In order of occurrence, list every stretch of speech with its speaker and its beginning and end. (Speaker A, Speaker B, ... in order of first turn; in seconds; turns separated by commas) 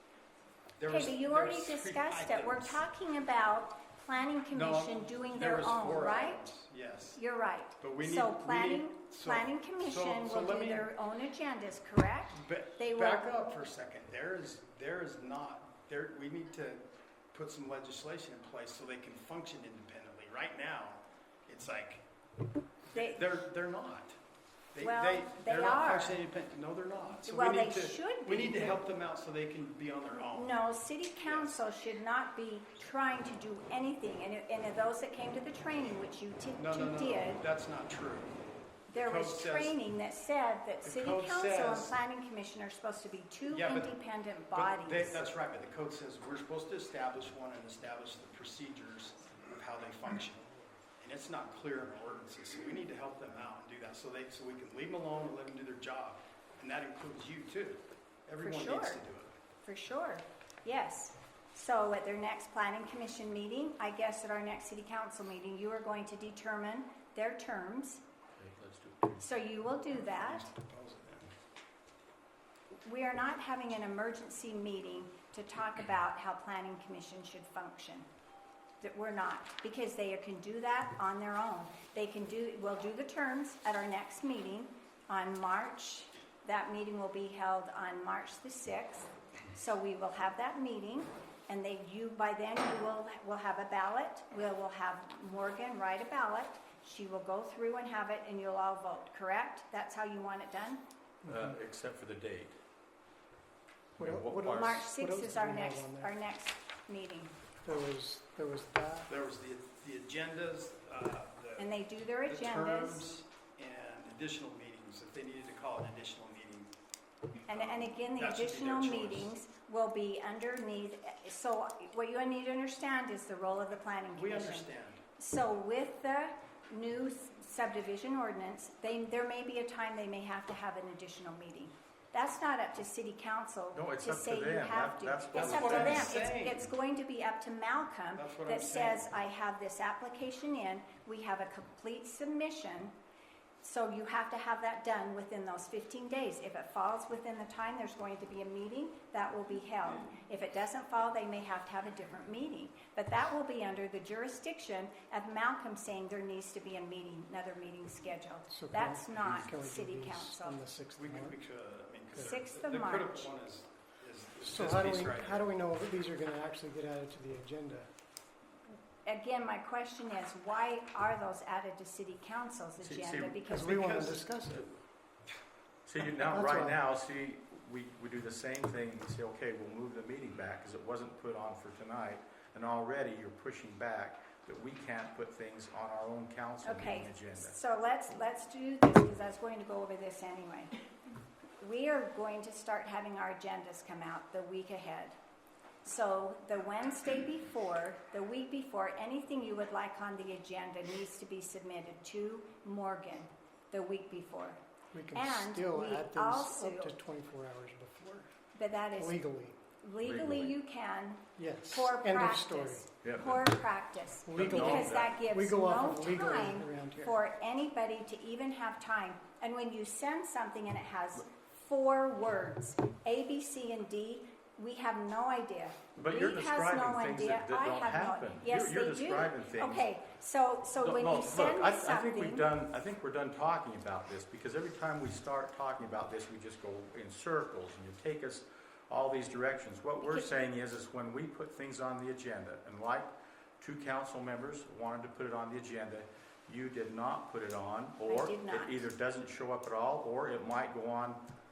Speaker A: 0.8-2.8, Speaker B: 0.9-6.5, Speaker A: 4.5-7.2, Speaker B: 7.2-13.3, Speaker A: 7.8-10.9, Speaker A: 12.3-22.0, Speaker A: 22.9-24.2, Speaker B: 22.9-23.2, Speaker A: 24.7-30.6, Speaker B: 24.8-26.2, Speaker B: 27.3-28.8, Speaker B: 30.1-37.4, Speaker A: 31.2-31.6, Speaker A: 36.6-38.4, Speaker B: 38.9-45.3, Speaker A: 38.9-39.8, Speaker A: 40.8-41.9, Speaker A: 43.5-43.9, Speaker A: 44.5-50.5, Speaker A: 51.0-59.4, Speaker B: 58.4-59.0, Speaker B: 59.6-68.0, Speaker C: 68.4-69.2, Speaker B: 69.2-70.5, Speaker A: 70.1-71.3, Speaker B: 72.8-78.1, Speaker B: 78.8-100.8, Speaker C: 101.2-102.6, Speaker D: 101.3-101.5, Speaker D: 104.0-106.2, Speaker C: 104.0-104.9, Speaker B: 104.5-107.3, Speaker D: 107.6-109.1, Speaker A: 109.1-116.7, Speaker B: 111.6-113.1, Speaker B: 117.5-142.9, Speaker A: 117.5-119.3, Speaker A: 124.1-125.0, Speaker C: 133.7-136.1, Speaker A: 135.3-136.7, Speaker A: 138.2-139.1, Speaker B: 143.6-160.6, Speaker D: 158.5-161.4, Speaker A: 161.0-165.6, Speaker B: 162.2-163.3, Speaker D: 164.4-167.9, Speaker B: 169.1-174.2, Speaker C: 172.8-173.4, Speaker D: 173.5-174.7, Speaker A: 173.8-174.2, Speaker C: 175.9-187.6, Speaker D: 176.2-176.8, Speaker B: 186.6-190.7, Speaker B: 191.6-195.2, Speaker B: 195.8-204.6, Speaker D: 204.9-208.3, Speaker B: 205.1-206.9, Speaker B: 208.6-209.2, Speaker D: 208.9-209.6, Speaker B: 209.8-232.5, Speaker C: 210.0-210.6, Speaker D: 211.4-212.9, Speaker C: 213.0-213.5, Speaker D: 214.3-217.2, Speaker C: 214.3-215.1, Speaker C: 226.0-229.9, Speaker C: 230.8-251.2, Speaker B: 240.0-240.3, Speaker B: 248.1-248.8